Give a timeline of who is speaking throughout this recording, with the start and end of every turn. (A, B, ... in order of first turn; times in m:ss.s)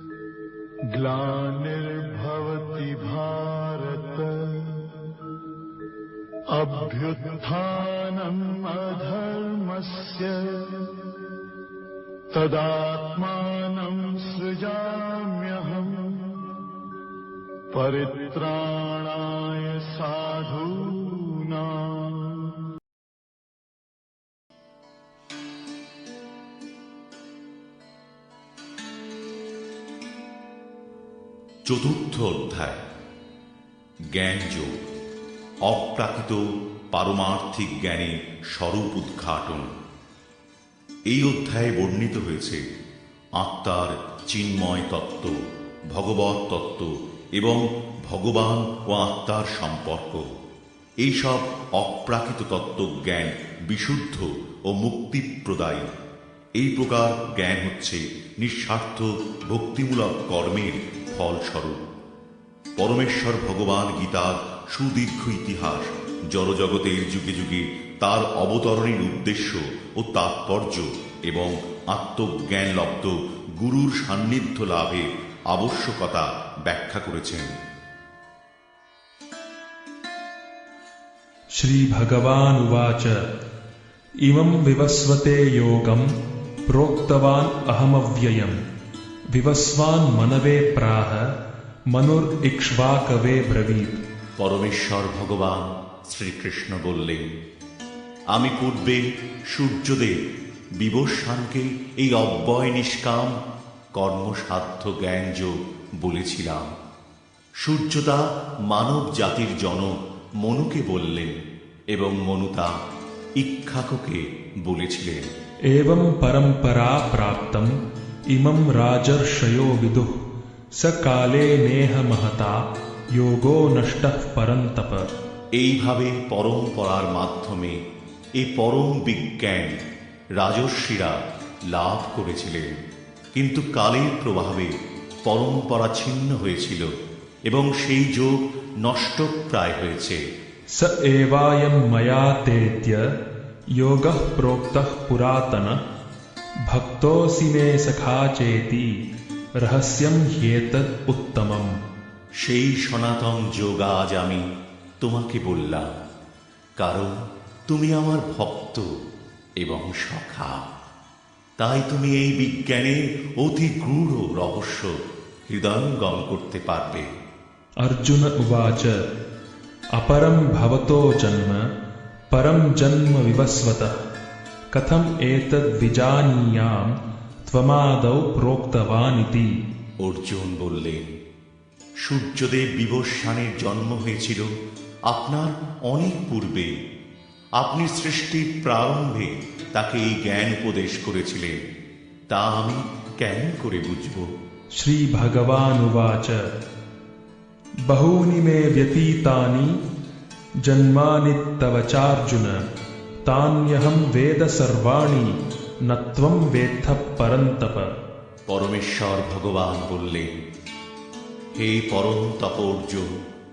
0:00.9-0:05.2 A
0:06.5-0:11.1 A
0:12.3-0:16.6 A
0:17.7-0:22.6 A
0:31.6-0:32.8 B
0:34.1-0:34.8 B
0:35.6-0:39.8 B
0:41.1-0:42.6 B
0:43.4-0:50.3 B
0:51.0-0:55.9 B
0:56.6-1:01.8 B
1:02.8-1:17.6 B
1:21.5-1:23.2 C
1:24.2-1:26.1 C
1:26.7-1:28.6 C
1:29.3-1:31.3 C
1:31.9-1:34.0 C
1:34.4-1:37.4 B
1:38.3-1:40.2 B
1:40.8-1:43.4 B
1:43.9-1:46.8 B
1:47.6-1:52.7 B
1:53.4-1:55.3 B
1:55.7-1:57.7 C
1:58.3-2:00.2 C
2:00.8-2:05.1 C
2:05.6-2:07.8 B
2:08.4-2:09.8 B
2:10.4-2:12.8 B
2:13.4-2:14.7 B
2:15.2-2:16.9 B
2:17.5-2:20.2 B
2:20.8-2:23.1 C
2:23.8-2:25.8 C
2:26.7-2:29.0 C
2:29.6-2:31.8 C
2:32.4-2:34.5 B
2:35.0-2:35.9 B
2:36.8-2:38.9 B
2:39.6-2:40.7 B
2:41.6-2:45.0 B
2:45.5-2:47.1 B
2:47.8-2:49.0 C
2:50.0-2:51.7 C
2:52.3-2:54.0 C
2:54.7-2:59.6 C
3:00.0-3:01.2 B
3:02.0-3:04.5 B
3:05.1-3:06.8 B
3:07.6-3:11.7 B
3:12.3-3:14.4 B
3:14.8-3:16.5 C
3:17.9-3:19.8 C
3:20.6-3:22.6 C
3:23.2-3:27.9 C
3:28.5-3:30.4 B
3:31.5-3:33.2 B